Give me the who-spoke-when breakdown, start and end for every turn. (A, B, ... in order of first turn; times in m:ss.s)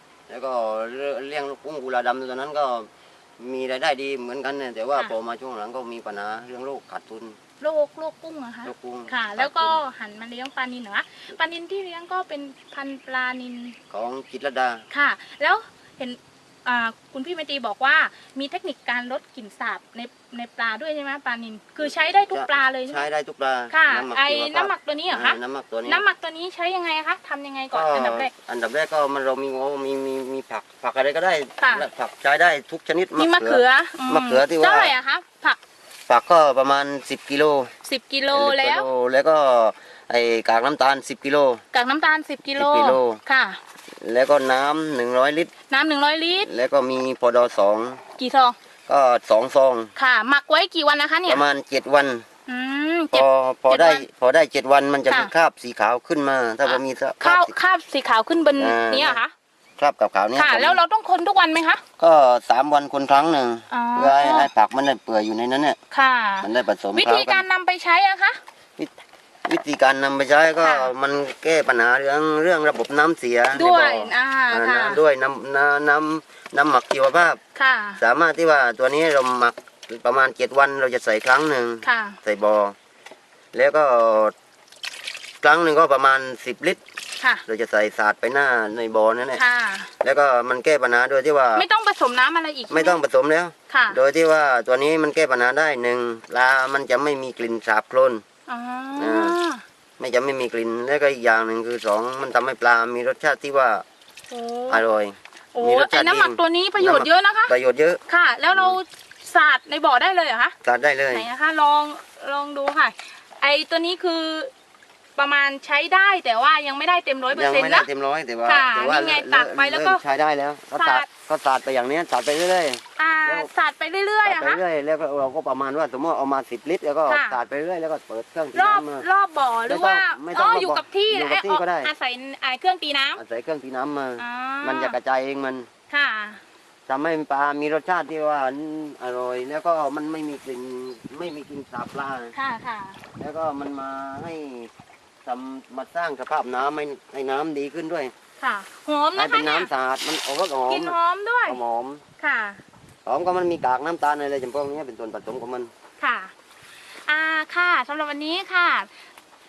0:00.3-0:02.9 A
0:03.4-0:07.4 A
0:07.6-0:13.8 B
0:08.6-0:09.8 A
0:13.9-0:14.8 A
0:14.9-0:23.1 B
0:22.0-0:26.0 A
0:23.7-0:28.3 B
0:27.7-0:34.9 A
0:31.6-0:31.9 B
0:33.2-0:35.6 B
0:36.1-0:37.7 A
0:37.8-0:38.9 B
0:38.3-0:41.6 A
0:41.7-0:43.6 B
0:42.5-0:43.2 A
0:44.0-0:45.5 A
0:45.7-0:46.5 B
0:46.4-0:48.0 A
0:48.2-0:48.6 B
0:48.9-0:49.9 A
0:50.0-0:51.4 B
0:51.3-0:52.2 A
0:52.5-0:54.0 B
0:53.1-0:57.5 A
0:56.6-0:59.3 B
0:58.6-0:59.2 A
0:59.8-1:00.8 A
1:00.3-1:01.8 B
1:02.0-1:05.8 A
1:03.7-1:04.5 B
1:05.9-1:08.4 B
1:06.4-1:07.4 A
1:09.5-1:17.4 A
1:10.6-1:10.9 B
1:13.5-1:15.0 B
1:17.5-1:18.0 B
1:18.0-1:22.7 A
1:21.8-1:22.2 B
1:23.5-1:24.3 A
1:25.4-1:26.8 A
1:27.2-1:27.4 B
1:27.4-1:29.4 A
1:29.3-1:29.9 B
1:30.0-1:31.6 A
1:31.5-1:33.0 B
1:32.7-1:38.2 A
1:33.7-1:34.0 B
1:38.5-1:39.6 B
1:39.0-1:39.4 A
1:40.0-1:43.8 A
1:44.3-1:44.8 B
1:44.7-1:48.0 A
1:45.5-1:47.5 B
1:48.0-1:50.5 B
1:50.6-1:51.3 A
1:51.1-1:54.5 B
1:55.2-1:57.9 B
1:57.3-2:03.5 A
1:58.4-2:00.0 B
2:00.7-2:01.1 B
2:03.0-2:04.6 B
2:04.2-2:09.0 A
2:07.1-2:07.4 B
2:08.5-2:13.2 B
2:09.7-2:11.9 A
2:13.2-2:15.7 A
2:14.2-2:15.0 B
2:15.9-2:16.4 B
2:16.9-2:22.3 A
2:22.3-2:23.0 B
2:23.2-2:24.7 A
2:25.2-2:28.1 A
2:28.4-2:29.7 B
2:29.1-2:32.0 A
2:30.7-2:31.6 B
2:32.2-2:32.6 B
2:33.0-2:35.7 A
2:36.0-2:36.3 B
2:37.0-2:38.9 B